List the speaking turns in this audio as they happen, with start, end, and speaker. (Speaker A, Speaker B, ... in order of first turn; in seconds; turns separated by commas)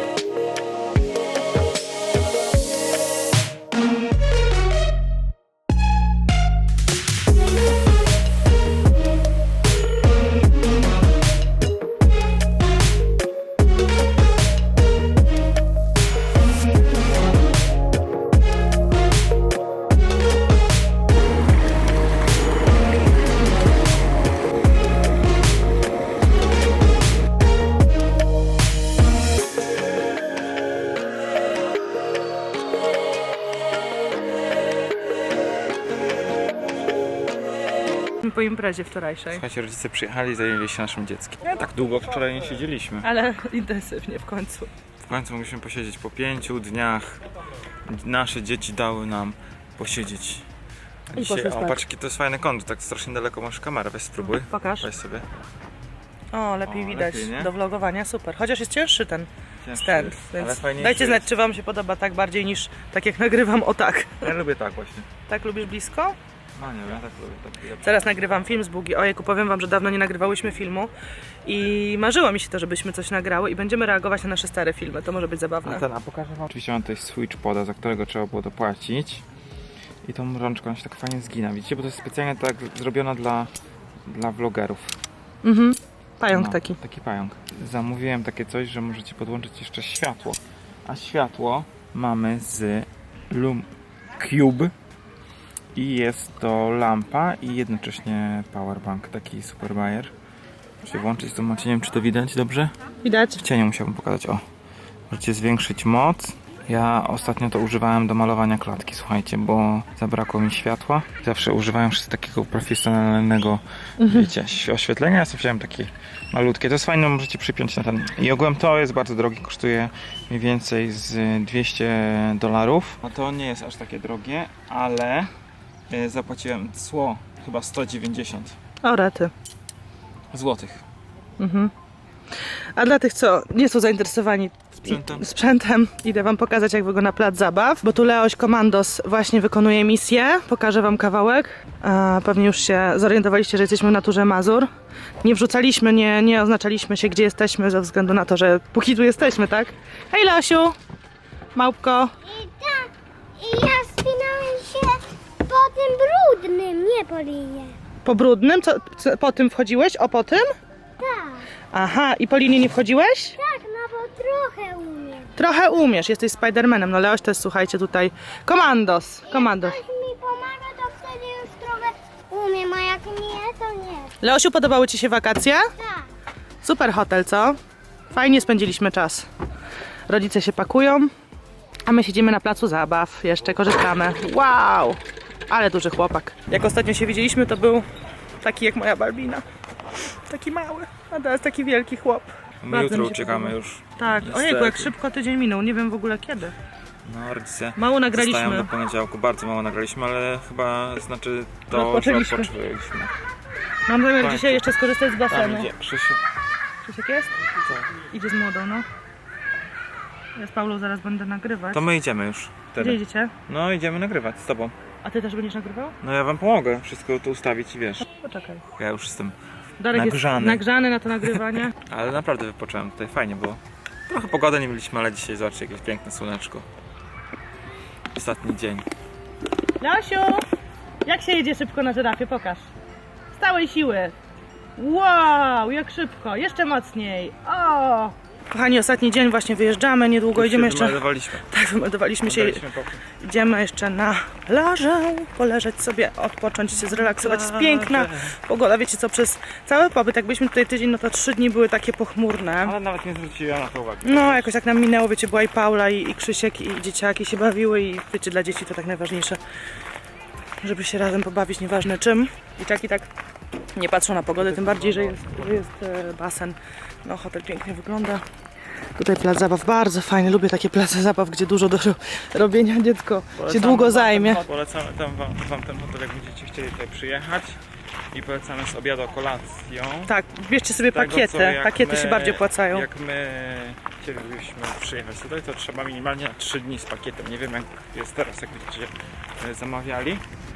Speaker A: 38.2-39.4, Speaker B: 39.3-43.1, Speaker A: 43.0-44.7, Speaker B: 45.0-47.2, Speaker B: 47.9-50.5, Speaker B: 51.1-55.3, Speaker A: 51.1-51.8, Speaker A: 54.3-54.9, Speaker A: 56.3-64.3, Speaker B: 56.6-57.5, Speaker B: 59.6-61.3, Speaker B: 64.2-65.1, Speaker A: 65.3-66.2, Speaker B: 66.6-68.1, Speaker A: 67.8-70.9, Speaker A: 71.5-75.8, Speaker B: 75.7-79.2, Speaker B: 80.0-83.5, Speaker B: 84.1-85.0, Speaker A: 85.4-86.8, Speaker B: 86.3-94.7, Speaker B: 95.8-100.1, Speaker B: 100.8-102.7, Speaker A: 103.0-103.4, Speaker B: 103.4-104.4, Speaker B: 105.1-125.3, Speaker A: 114.0-114.3, Speaker B: 125.9-128.6, Speaker A: 128.8-129.3, Speaker B: 130.3-130.8, Speaker A: 131.4-131.7, Speaker A: 132.7-144.7, Speaker B: 134.8-135.3, Speaker A: 145.2-150.8, Speaker A: 151.6-152.1, Speaker C: 152.3-157.8, Speaker A: 158.0-160.5, Speaker C: 161.0-161.5, Speaker A: 161.7-163.4, Speaker C: 163.4-165.3, Speaker A: 165.4-169.8, Speaker C: 169.3-174.1, Speaker A: 174.2-175.7, Speaker C: 175.8-176.1, Speaker A: 176.6-177.6, Speaker A: 178.1-179.3, Speaker A: 180.1-181.1, Speaker A: 181.8-187.9, Speaker A: 188.4-189.4, Speaker A: 190.3-196.6, Speaker B: 192.6-194.9, Speaker B: 197.1-203.1, Speaker A: 197.8-198.7, Speaker A: 201.7-202.5, Speaker A: 203.9-205.7, Speaker B: 204.2-204.7, Speaker B: 205.3-206.2, Speaker A: 206.8-207.4, Speaker A: 208.1-208.9, Speaker A: 210.4-211.9, Speaker B: 211.7-214.8, Speaker A: 212.8-213.3, Speaker A: 215.0-216.0, Speaker B: 216.0-218.1, Speaker A: 218.0-218.7, Speaker B: 218.8-219.4, Speaker A: 219.8-221.8, Speaker B: 219.9-220.7, Speaker B: 221.2-226.7, Speaker B: 228.1-228.9, Speaker A: 229.8-230.4, Speaker A: 231.0-232.7, Speaker A: 233.3-234.2, Speaker A: 234.8-242.6, Speaker B: 240.3-241.5, Speaker B: 242.2-243.0, Speaker A: 243.2-252.8, Speaker B: 246.8-248.3, Speaker B: 252.6-254.5, Speaker A: 254.0-259.4, Speaker A: 260.6-263.1, Speaker A: 263.7-268.2, Speaker B: 264.4-265.6, Speaker A: 268.9-274.4, Speaker B: 273.4-277.6, Speaker B: 278.1-280.1, Speaker A: 280.1-282.9, Speaker B: 280.9-290.2